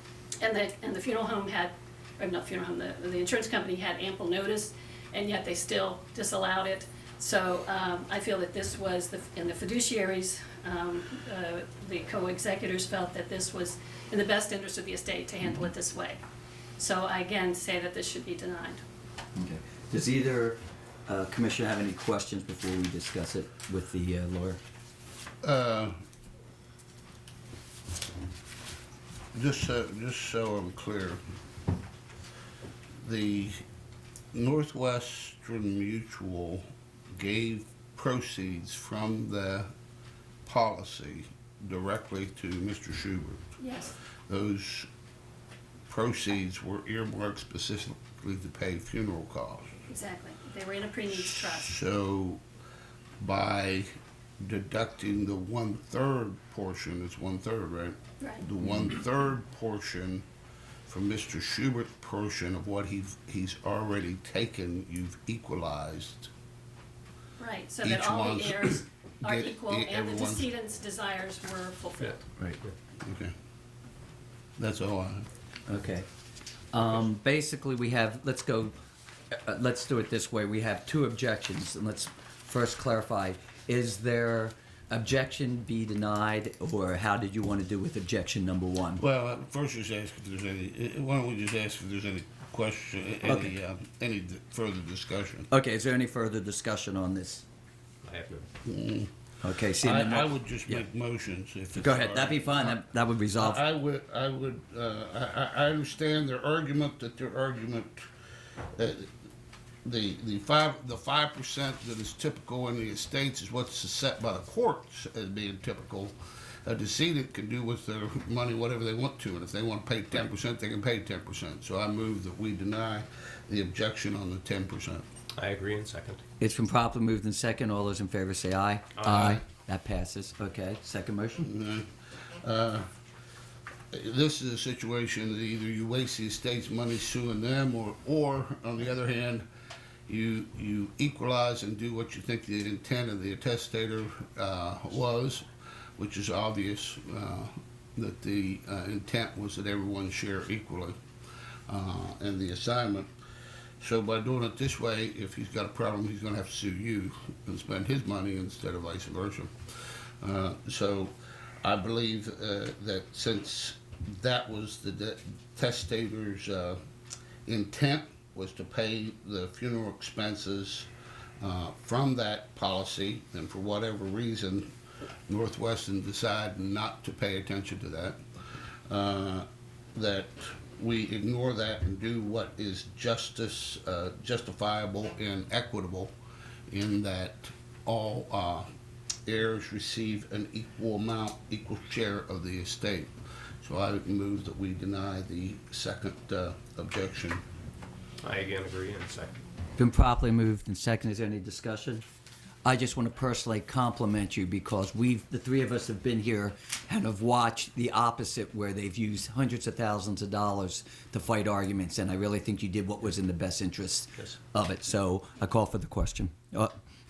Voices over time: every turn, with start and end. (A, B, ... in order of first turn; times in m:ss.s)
0:00.4-0:16.2 A
0:16.8-0:18.8 A
0:19.4-0:24.6 B
0:25.4-0:25.9 C
0:29.3-0:31.2 C
0:33.0-0:33.6 C
0:34.3-0:36.6 C
0:37.1-0:39.7 C
0:40.5-0:43.4 C
0:43.6-0:43.9 A
0:44.3-0:44.9 C
0:45.9-0:49.7 C
0:49.9-0:51.8 A
0:51.1-0:52.4 C
0:53.2-0:53.9 C
0:54.4-1:00.2 C
1:00.9-1:06.3 C
1:07.4-1:12.2 A
1:07.8-1:10.5 C
1:13.0-1:13.3 C
1:14.6-1:15.3 C
1:15.7-1:16.1 B
1:16.7-1:18.7 B
1:19.3-1:29.0 B
1:29.0-1:35.5 C
1:33.2-1:33.5 B
1:35.5-1:37.4 B
1:38.0-1:38.5 D
1:38.6-1:39.1 C
1:39.4-1:40.8 B
1:39.8-1:48.1 C
1:41.8-1:43.6 B
1:48.8-1:49.1 C
1:49.8-2:05.0 C
2:05.4-2:06.2 D
2:06.4-2:11.5 B
2:09.1-2:09.4 C
2:11.4-2:12.9 C
2:13.9-2:19.4 C
2:20.1-2:31.0 C
2:31.7-2:33.1 C
2:33.8-2:39.5 C
2:40.2-2:46.8 C
2:47.5-2:50.9 C
2:51.4-2:54.7 C
2:55.3-2:58.2 C
2:58.9-3:06.1 C
3:06.7-3:08.7 C
3:09.3-3:13.1 C
3:13.6-3:17.4 C
3:18.2-3:19.4 D
3:19.8-3:22.0 B
3:22.6-3:36.7 B